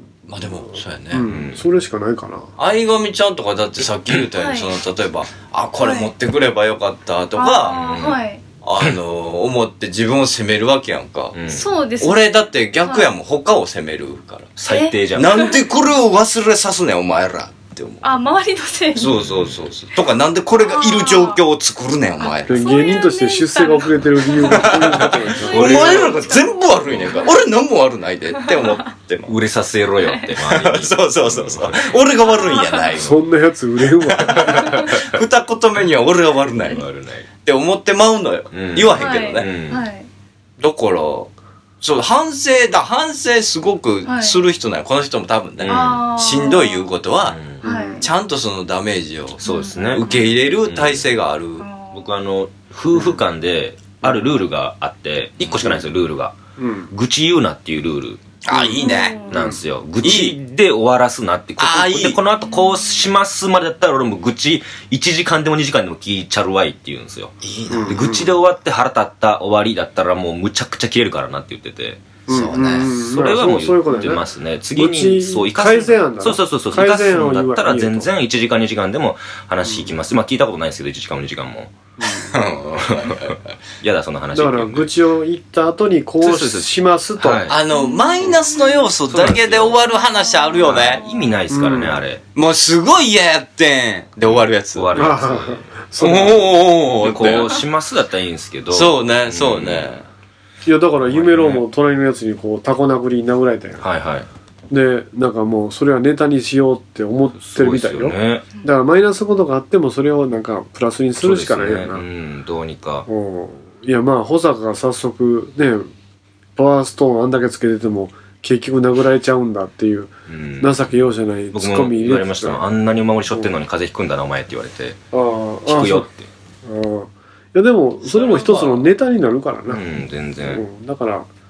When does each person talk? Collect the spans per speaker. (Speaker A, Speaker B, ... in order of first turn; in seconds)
Speaker A: 0.2-1.2, 2.6-7.8, 8.6-11.3, 12.0-14.5, 15.1-18.1, 18.9-22.6, 25.5-29.3, 30.5-33.1, 34.1-36.8, 37.4-39.5, 40.6-47.4, 48.0-49.4, 49.9-51.6, 58.4-59.2, 60.0-60.4, 61.6-62.2, 67.4-68.0, 72.3-72.9, 82.3-83.4, 87.5-91.0, 92.3-95.1, 96.0-97.5, 98.7-100.0, 128.1-128.9
Speaker B: 1.1-2.5, 22.5-25.8, 33.0-34.8, 47.6-48.0, 52.9-53.2, 54.0-54.4, 55.4-55.8, 56.6-56.9, 58.5-59.6, 67.7-68.3, 72.3-74.2, 74.8-78.1, 79.6-79.9, 82.0-82.3, 84.3-87.5, 91.5-92.0, 94.9-96.4, 100.6-103.8, 104.7-112.0, 113.1-115.9, 116.5-122.6, 125.1-126.1, 126.6-131.2
Speaker C: 1.2-1.7, 7.7-8.2, 11.3-11.7, 14.6-15.6, 19.0-19.6, 25.4-27.2, 29.2-31.9, 34.2-35.0, 36.6-37.3, 38.5-39.8, 45.6-46.0, 47.2-47.6, 49.4-50.0, 50.6-51.1, 51.9-56.4, 56.9-58.2, 59.3-67.3, 67.9-72.0, 73.1-81.8, 83.0-84.9, 86.2-87.6, 89.1-89.7, 90.6-92.2, 94.2-95.7, 97.0-99.9, 101.0-101.6, 103.8-104.3, 107.4-108.5, 111.2-113.1, 120.3-125.0, 125.6-126.3, 129.7-130.6
Speaker D: 4.3-4.7, 5.8-6.1, 7.3-8.4, 11.5-12.2, 12.8-13.1, 14.7-15.6, 18.0-19.1, 20.6-21.4, 22.2-27.3, 28.4-28.7, 30.0-30.3, 32.3-32.9, 39.0-40.1, 44.0-44.4, 45.7-46.9, 47.6-48.0, 49.4-50.4, 51.6-52.0, 58.8-59.4, 87.7-88.9, 89.7-91.3